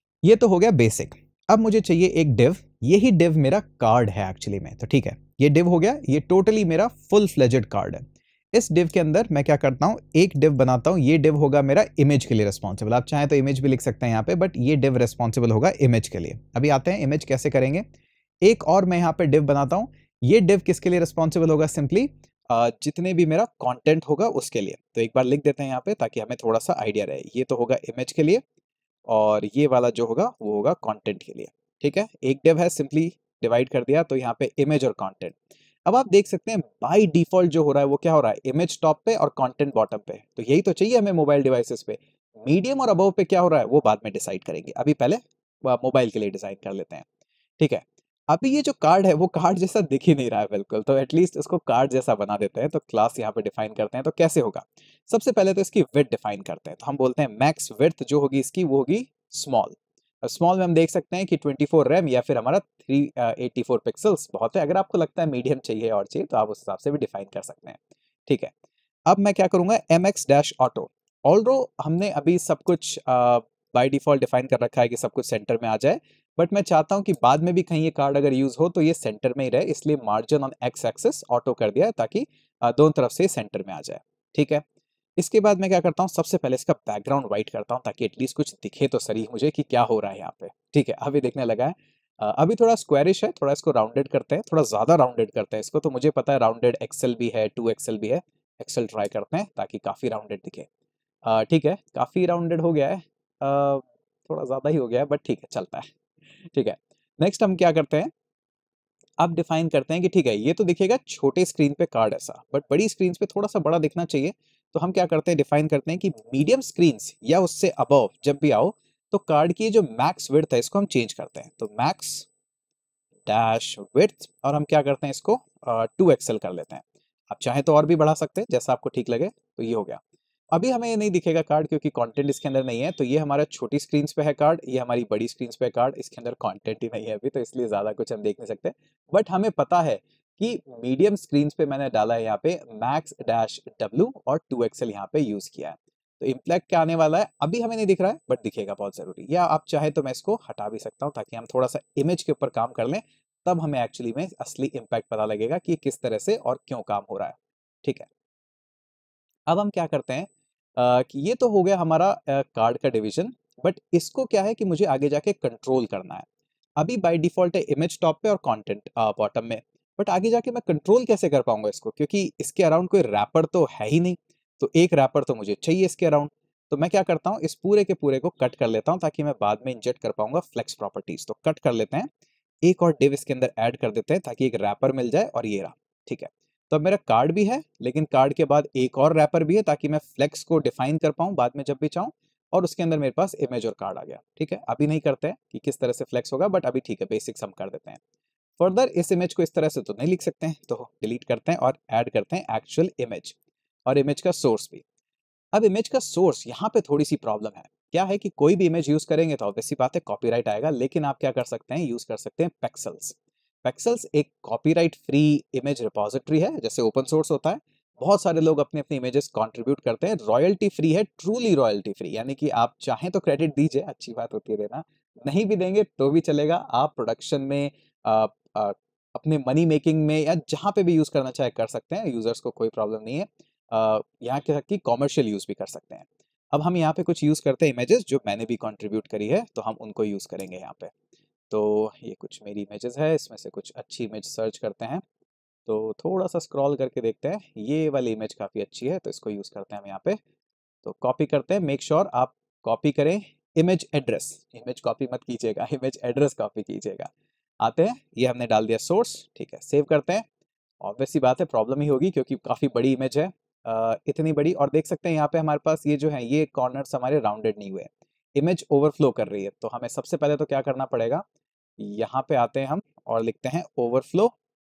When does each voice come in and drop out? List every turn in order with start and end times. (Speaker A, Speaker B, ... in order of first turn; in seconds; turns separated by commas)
Speaker A: 0.2-17.8, Speaker A: 18.4-28.4, Speaker A: 29.1-47.0, Speaker A: 47.6-68.5, Speaker A: 69.1-84.6, Speaker A: 85.2-100.7, Speaker A: 101.2-105.9, Speaker A: 106.4-108.1, Speaker A: 109.2-122.3, Speaker A: 123.2-130.0, Speaker A: 130.5-158.1, Speaker A: 159.5-166.2, Speaker A: 166.8-182.1, Speaker A: 182.6-198.0, Speaker A: 198.6-204.8, Speaker A: 205.5-240.9, Speaker A: 241.5-245.0, Speaker A: 245.7-250.2, Speaker A: 250.8-257.1, Speaker A: 257.6-260.2, Speaker A: 260.8-271.2, Speaker A: 271.8-274.3